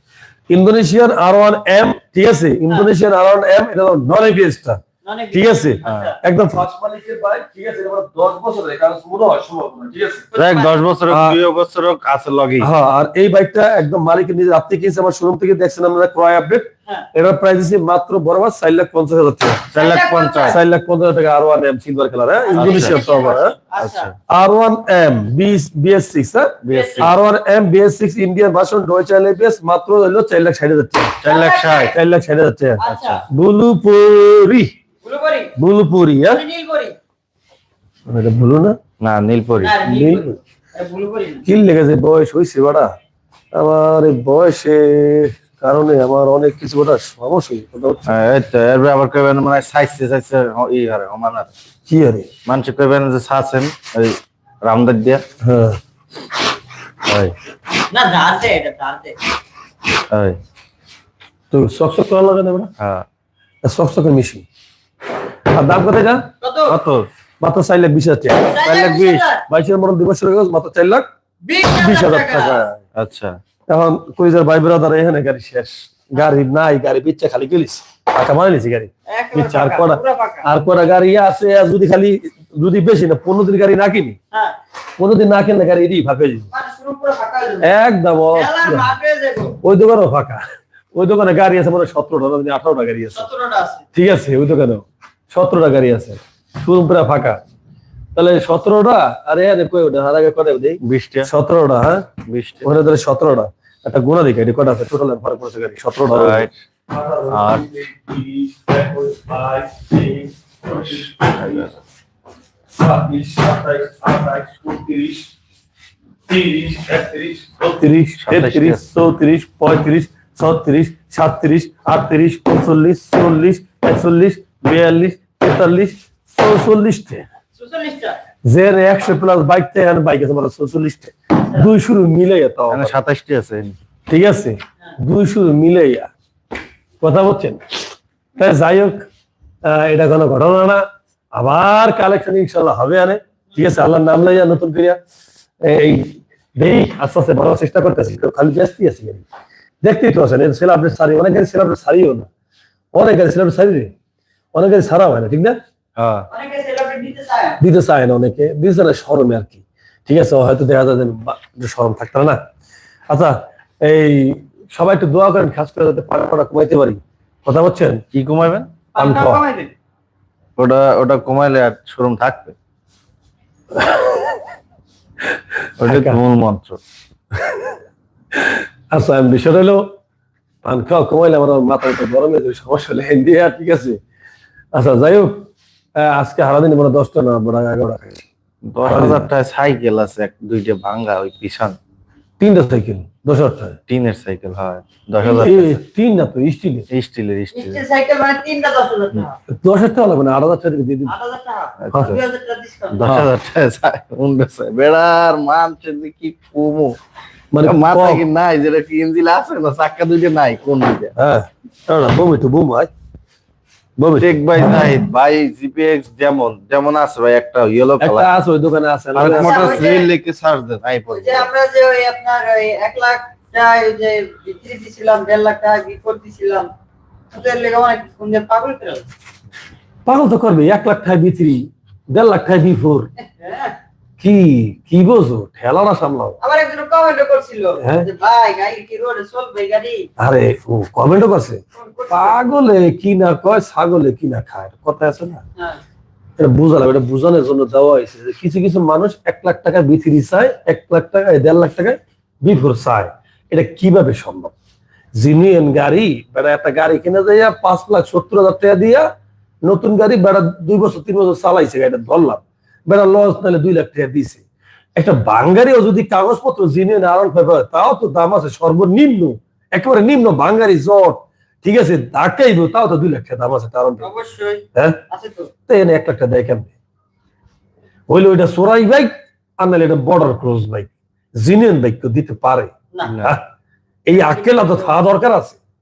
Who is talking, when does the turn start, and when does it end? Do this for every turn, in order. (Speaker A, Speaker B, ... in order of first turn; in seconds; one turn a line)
Speaker A: 0.5-10.2
Speaker B: 5.0-6.2
Speaker C: 5.8-6.1
Speaker B: 10.3-10.7
Speaker C: 10.3-12.7
Speaker A: 11.1-11.4
Speaker A: 12.6-19.6
Speaker C: 19.7-20.6
Speaker B: 19.8-20.6
Speaker A: 20.5-23.6
Speaker B: 22.4-24.1
Speaker C: 22.5-23.0
Speaker C: 23.8-24.1
Speaker A: 24.3-31.1
Speaker C: 26.6-27.1
Speaker B: 26.7-27.1
Speaker C: 31.2-31.9
Speaker B: 31.2-31.9
Speaker A: 31.8-34.7
Speaker B: 32.8-33.3
Speaker C: 32.8-33.2
Speaker B: 35.0-35.5
Speaker A: 35.5-36.4
Speaker B: 36.3-37.0
Speaker A: 38.1-38.8
Speaker C: 39.0-39.8
Speaker B: 39.6-41.4
Speaker A: 39.8-40.4
Speaker A: 41.4-42.9
Speaker A: 43.5-48.1
Speaker C: 48.0-51.5
Speaker A: 51.9-52.3
Speaker C: 52.5-55.2
Speaker A: 55.4-55.8
Speaker C: 57.1-57.3
Speaker B: 57.9-59.1
Speaker C: 60.1-60.4
Speaker A: 61.5-62.7
Speaker C: 62.8-63.0
Speaker A: 63.6-64.4
Speaker A: 65.5-66.8
Speaker B: 66.4-66.8
Speaker C: 66.7-67.1
Speaker A: 67.4-68.5
Speaker B: 68.4-69.4
Speaker C: 68.6-69.2
Speaker A: 69.5-71.1
Speaker B: 71.4-72.7
Speaker A: 71.7-72.8
Speaker C: 72.9-73.4
Speaker A: 73.7-84.2
Speaker B: 79.1-80.5
Speaker A: 85.0-86.5
Speaker B: 86.5-87.8
Speaker A: 87.6-88.9
Speaker B: 88.3-89.6
Speaker A: 89.6-93.3
Speaker B: 93.1-93.8
Speaker A: 93.9-97.4
Speaker A: 98.1-102.1
Speaker C: 100.8-101.3
Speaker C: 102.3-102.7
Speaker A: 102.6-111.7
Speaker C: 106.1-106.6
Speaker C: 107.3-107.7
Speaker C: 111.2-111.7
Speaker A: 112.8-115.3
Speaker A: 116.3-127.3
Speaker C: 118.2-118.8
Speaker B: 127.5-128.2
Speaker A: 128.4-132.9
Speaker C: 132.7-133.8
Speaker A: 134.1-136.1
Speaker A: 137.0-137.8
Speaker A: 138.4-139.1
Speaker A: 139.6-145.0
Speaker A: 145.6-149.2
Speaker A: 149.8-152.3
Speaker A: 152.9-153.9
Speaker A: 154.5-155.6
Speaker C: 156.0-156.3
Speaker B: 156.3-157.6
Speaker A: 157.6-162.4
Speaker A: 163.1-168.0
Speaker C: 168.1-168.7
Speaker B: 168.9-169.7
Speaker A: 169.0-169.4
Speaker C: 170.6-172.5
Speaker A: 173.8-174.3
Speaker C: 175.8-176.8
Speaker A: 175.8-176.2
Speaker A: 177.4-177.8
Speaker A: 178.3-179.9
Speaker A: 180.6-184.0
Speaker A: 184.7-188.2
Speaker C: 188.7-191.8
Speaker A: 188.8-189.2
Speaker A: 192.4-193.8
Speaker C: 193.9-195.8
Speaker A: 195.2-196.9
Speaker C: 196.9-197.8
Speaker B: 197.5-199.4
Speaker A: 199.5-201.1
Speaker B: 201.1-203.0
Speaker C: 201.8-202.2
Speaker C: 202.9-207.0
Speaker A: 203.0-203.3
Speaker A: 207.5-208.2
Speaker C: 207.6-211.1
Speaker A: 211.2-212.9
Speaker A: 214.0-214.3
Speaker C: 214.2-218.3
Speaker A: 218.0-219.8
Speaker C: 219.1-221.5
Speaker B: 219.2-220.1
Speaker B: 221.1-226.7
Speaker B: 227.3-229.1
Speaker A: 230.1-233.1
Speaker B: 233.3-233.8
Speaker A: 234.2-236.4
Speaker B: 236.4-240.1
Speaker A: 237.8-238.1
Speaker A: 240.2-245.4
Speaker B: 241.7-242.6
Speaker A: 246.4-254.5
Speaker A: 255.2-259.1
Speaker A: 259.6-264.4
Speaker A: 264.9-274.1
Speaker B: 274.0-275.5
Speaker A: 274.7-275.0
Speaker A: 275.7-276.7
Speaker A: 278.1-283.4
Speaker B: 282.9-283.2
Speaker C: 283.0-283.4
Speaker A: 284.1-285.6
Speaker B: 284.1-285.0